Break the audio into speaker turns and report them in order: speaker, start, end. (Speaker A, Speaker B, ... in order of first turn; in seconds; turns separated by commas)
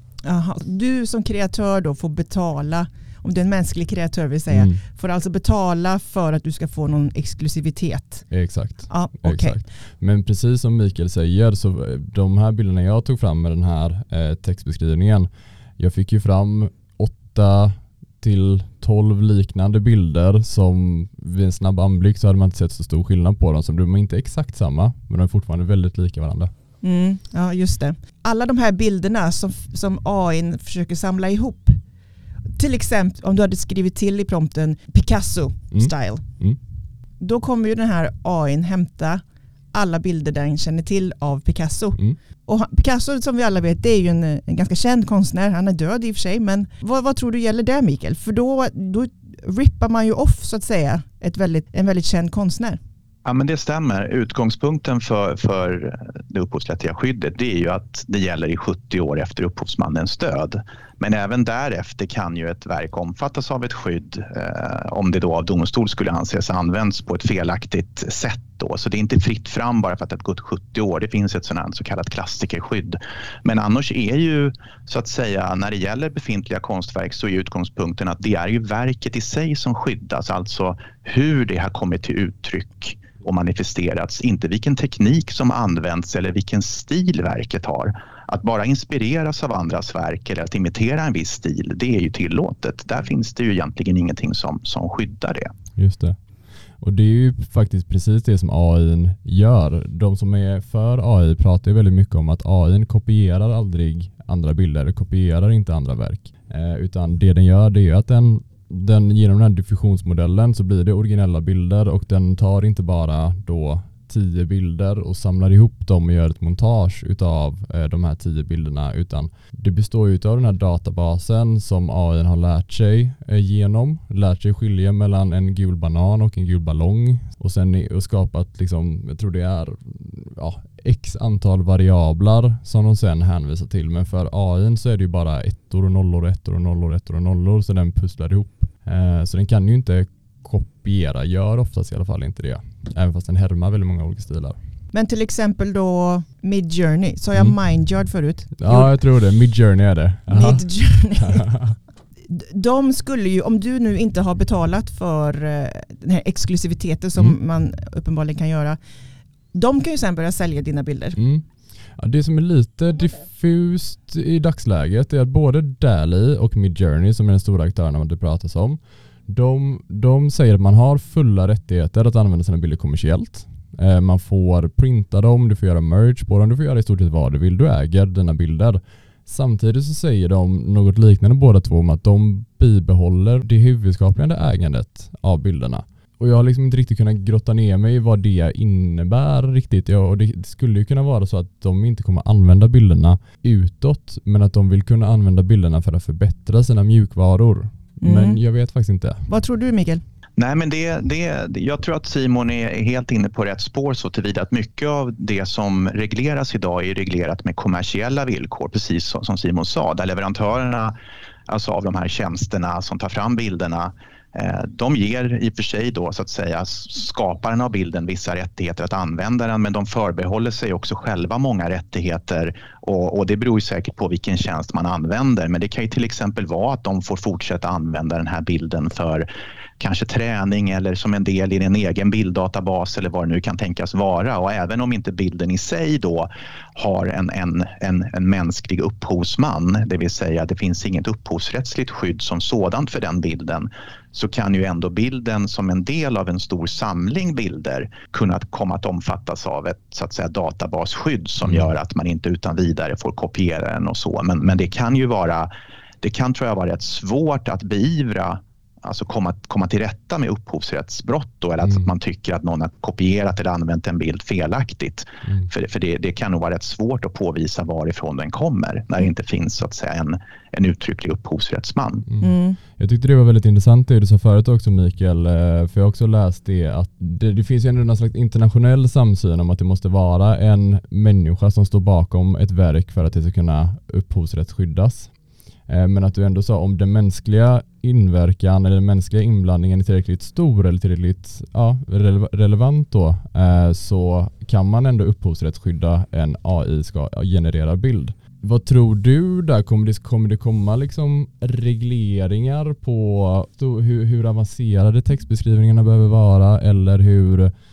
Speaker A: 0.2-8.3, Speaker B: 4.5-4.8, Speaker B: 8.3-26.5, Speaker A: 8.9-9.6, Speaker A: 26.8-31.8, Speaker A: 32.6-36.2, Speaker B: 35.7-36.6, Speaker A: 37.2-52.8, Speaker C: 53.2-95.5, Speaker B: 95.8-96.2, Speaker B: 96.8-144.6, Speaker A: 144.9-148.9, Speaker B: 148.6-150.7, Speaker A: 150.3-151.5, Speaker B: 151.2-151.8, Speaker A: 152.3-158.8, Speaker A: 159.5-161.2, Speaker B: 161.2-161.4, Speaker B: 162.0-199.3, Speaker A: 198.0-198.4, Speaker A: 199.3-200.0, Speaker C: 200.4-210.9, Speaker C: 211.5-229.3, Speaker C: 229.8-255.5, Speaker B: 251.4-251.7, Speaker C: 256.0-272.1, Speaker B: 272.1-285.1, Speaker A: 272.2-272.6, Speaker B: 285.7-307.5